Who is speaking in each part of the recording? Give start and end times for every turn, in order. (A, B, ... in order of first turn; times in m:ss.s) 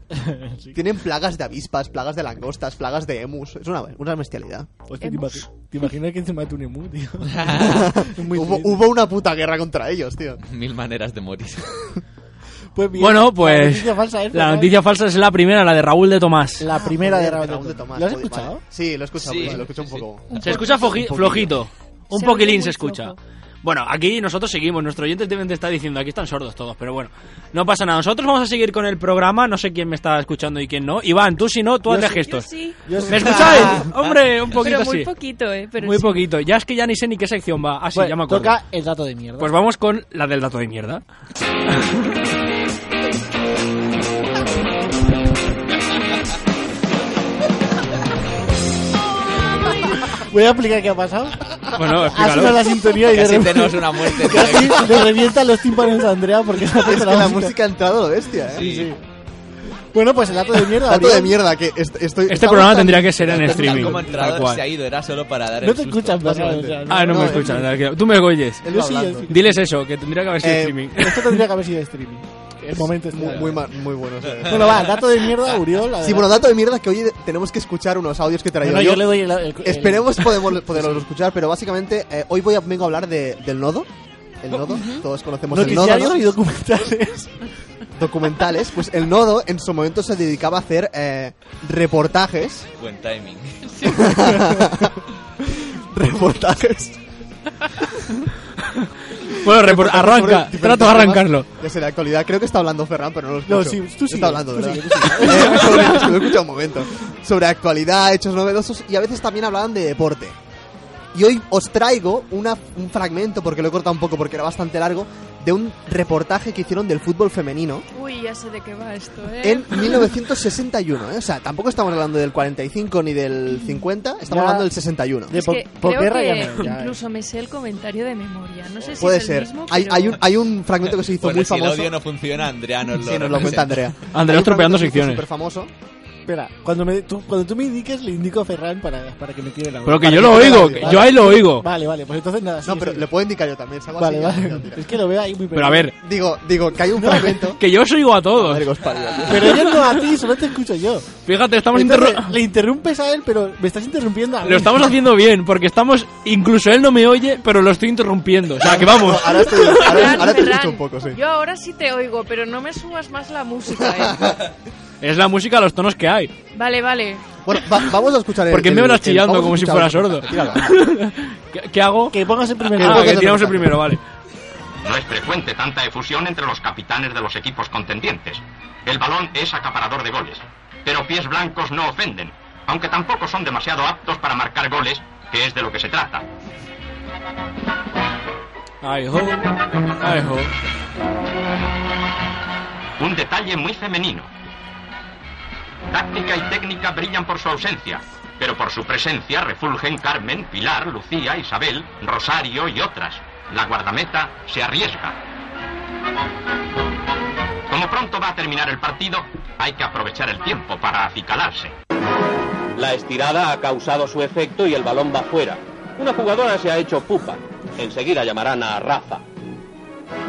0:00.1-0:00.8 A
0:00.7-0:04.7 B
0:04.9-0:08.8 A
0:05.0-0:05.5 C
0:07.3-0:07.8 D
0:07.6-0:10.4 B
0:10.4-0:11.9 D
0:12.8-0:14.8 A
0:13.0-0:16.7 E
0:16.6-0:18.6 A
0:16.7-0:21.5 B
0:19.2-0:20.0 D
0:20.3-0:21.0 C
0:20.4-0:32.5 E
0:22.1-0:23.2 C
0:31.9-0:33.9 A
0:32.2-0:33.7 C
0:33.1-0:35.1 E
0:34.6-0:36.3 C
0:35.8-0:38.6 E
0:37.9-0:39.6 A
0:39.4-0:41.0 E
0:50.0-0:51.4 A
0:51.8-0:52.6 E
0:52.0-0:57.6 A
0:53.1-0:55.1 D
0:56.7-0:58.7 B
0:58.5-0:58.9 D
0:58.6-0:59.0 A
0:59.9-1:01.4 A
1:00.8-1:04.0 B
1:02.3-1:04.6 E
1:03.5-1:06.7 D
1:05.6-1:07.7 A
1:06.9-1:08.7 E
1:07.0-1:07.6 B
1:08.6-1:09.3 B
1:08.7-1:09.6 A
1:09.3-1:11.4 E
1:10.4-1:10.8 B
1:11.0-1:13.6 A
1:13.1-1:14.9 B
1:14.4-1:14.7 D
1:14.5-1:16.5 A
1:16.0-1:23.9 B
1:18.6-1:21.0 A
1:24.4-1:26.3 B
1:24.7-1:25.0 C
1:25.5-1:27.4 A
1:28.0-1:32.7 B
1:32.8-1:33.9 D
1:33.7-1:34.1 C
1:33.8-1:34.9 B
1:35.4-1:37.0 B
1:39.4-1:41.5 E
1:39.5-1:50.4 B
1:43.5-1:46.1 A
1:51.1-1:57.9 B
1:57.9-2:00.1 C
1:59.4-2:05.3 B
2:03.5-2:03.8 C
2:04.3-2:04.7 A
2:05.3-2:07.0 A
2:05.3-2:10.2 C
2:09.0-2:12.0 B
2:11.0-2:13.8 D
2:13.0-2:15.7 B
2:14.1-2:15.2 E
2:16.3-2:23.1 A
2:19.9-2:21.7 E
2:20.2-2:21.2 B
2:22.6-2:24.9 B
2:24.0-2:25.9 A
2:25.5-2:26.0 E
2:26.0-2:27.6 B
2:27.0-2:27.4 A
2:27.6-2:28.7 E
2:28.3-2:29.7 B
2:29.3-2:31.1 A
2:31.2-2:32.4 E
2:31.7-2:35.0 A
2:34.4-2:40.1 E
2:38.6-2:41.2 B
2:39.7-2:44.4 C
2:43.9-2:44.4 B
2:45.0-2:46.3 E
2:46.5-2:47.3 C
2:47.4-2:50.7 B
2:48.5-2:52.2 E
2:52.1-2:53.6 A
2:52.7-2:54.0 E
2:52.8-2:53.8 B
2:54.8-3:06.3 F
3:08.8-3:10.5 E
3:13.0-3:14.3 F
3:15.9-3:25.2 F
3:27.7-3:31.7 F
3:32.8-3:39.2 G